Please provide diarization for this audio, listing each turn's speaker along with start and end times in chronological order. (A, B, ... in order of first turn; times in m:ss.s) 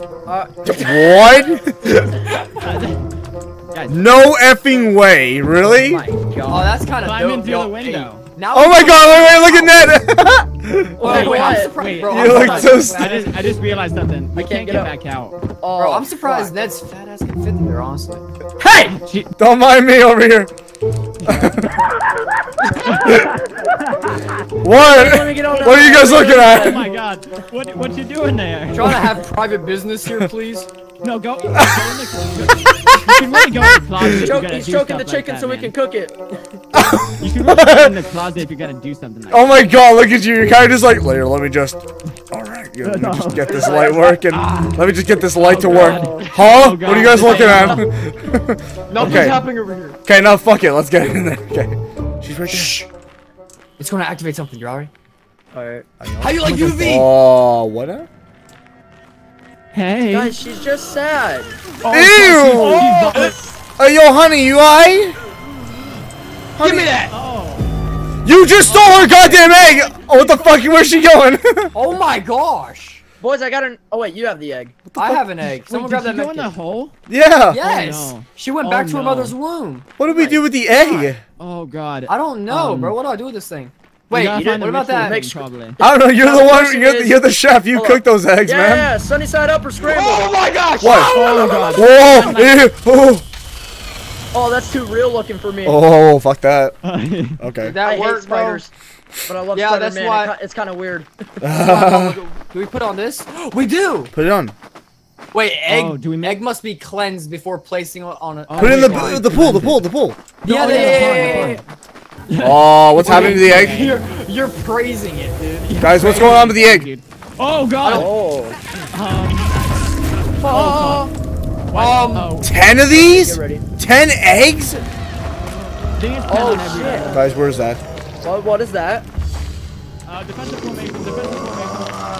0:00.2-0:01.5 A
0:00.6-0:02.1 B
0:02.6-0:03.0 C
0:03.7-0:04.0 C
0:03.9-0:06.0 B
0:05.6-0:06.8 A
0:06.4-0:10.0 D
0:07.0-0:08.2 C
0:08.5-0:11.0 B
0:11.0-0:12.6 A
0:11.0-0:13.5 D
0:11.0-0:15.4 C
0:12.0-0:13.2 B
0:14.3-0:14.9 A
0:15.6-0:16.5 A
0:15.8-0:18.9 D
0:18.9-0:19.3 C
0:19.4-0:20.5 B
0:21.2-0:21.7 B
0:22.8-0:24.3 C
0:24.6-0:26.8 B
0:24.7-0:26.9 A
0:26.4-0:29.0 C
0:28.7-0:30.7 D
0:31.0-0:35.7 C
0:32.9-0:33.3 B
0:34.0-0:36.3 A
0:36.7-0:38.0 B
0:37.2-0:39.6 C
0:39.3-0:49.4 B
0:42.8-0:43.6 C
0:43.4-0:44.2 A
0:44.2-0:44.8 D
0:45.4-0:45.9 D
0:45.4-0:46.3 A
0:45.5-0:47.8 C
0:46.8-0:47.7 D
0:47.2-0:47.9 A
0:48.9-0:50.0 D
0:50.0-0:52.8 B
0:52.5-0:52.9 D
0:53.8-0:54.9 D
0:55.5-0:55.8 A
0:56.0-0:58.1 B
0:56.2-0:57.1 D
0:56.4-0:56.7 C
0:59.7-1:00.3 C
1:00.1-1:01.6 A
1:01.8-1:03.3 C
1:01.9-1:05.2 B
1:06.6-1:06.9 B
1:06.6-1:07.1 D
1:07.1-1:07.7 C
1:08.2-1:11.7 B
1:09.0-1:10.3 C
1:11.7-1:13.0 D
1:13.2-1:14.8 A
1:14.8-1:15.2 B
1:14.9-1:16.5 D
1:15.7-1:16.9 C
1:17.1-1:17.6 B
1:17.5-1:20.4 D
1:17.6-1:19.2 C
1:18.7-1:19.3 B
1:20.0-1:21.2 B
1:21.4-1:22.9 C
1:22.1-1:25.3 D
1:24.1-1:25.8 C
1:24.4-1:30.3 A
1:25.8-1:28.9 B
1:29.8-1:31.7 D
1:30.8-1:33.2 B
1:31.0-1:31.8 A
1:31.1-1:32.6 C
1:34.3-1:35.8 A
1:35.6-1:36.8 B
1:36.8-1:37.4 C
1:37.4-1:37.8 B
1:37.6-1:38.6 D
1:37.8-1:38.7 A
1:39.2-1:41.2 A
1:39.5-1:40.3 D
1:41.4-1:42.2 B
1:41.5-1:44.1 D
1:44.1-1:44.5 B
1:45.3-1:49.3 D
1:45.7-1:46.4 C
1:48.5-1:49.9 C
1:48.6-1:50.2 B
1:50.4-1:51.6 C
1:50.4-1:51.6 D
1:50.5-1:51.6 A
1:52.3-1:54.0 C
1:52.4-1:53.8 B
1:53.0-1:55.7 D
1:55.6-1:58.1 C
1:55.8-1:56.9 B
1:57.8-1:58.1 D
1:57.9-1:58.6 A
1:58.9-1:59.8 C
2:00.4-2:01.1 A
2:00.4-2:01.1 C
2:01.7-2:02.6 C
2:01.7-2:02.4 D
2:02.4-2:04.8 B
2:02.5-2:03.6 A
2:06.0-2:07.2 C
2:06.3-2:07.1 A
2:07.1-2:07.8 B
2:08.2-2:09.0 A
2:10.0-2:12.0 C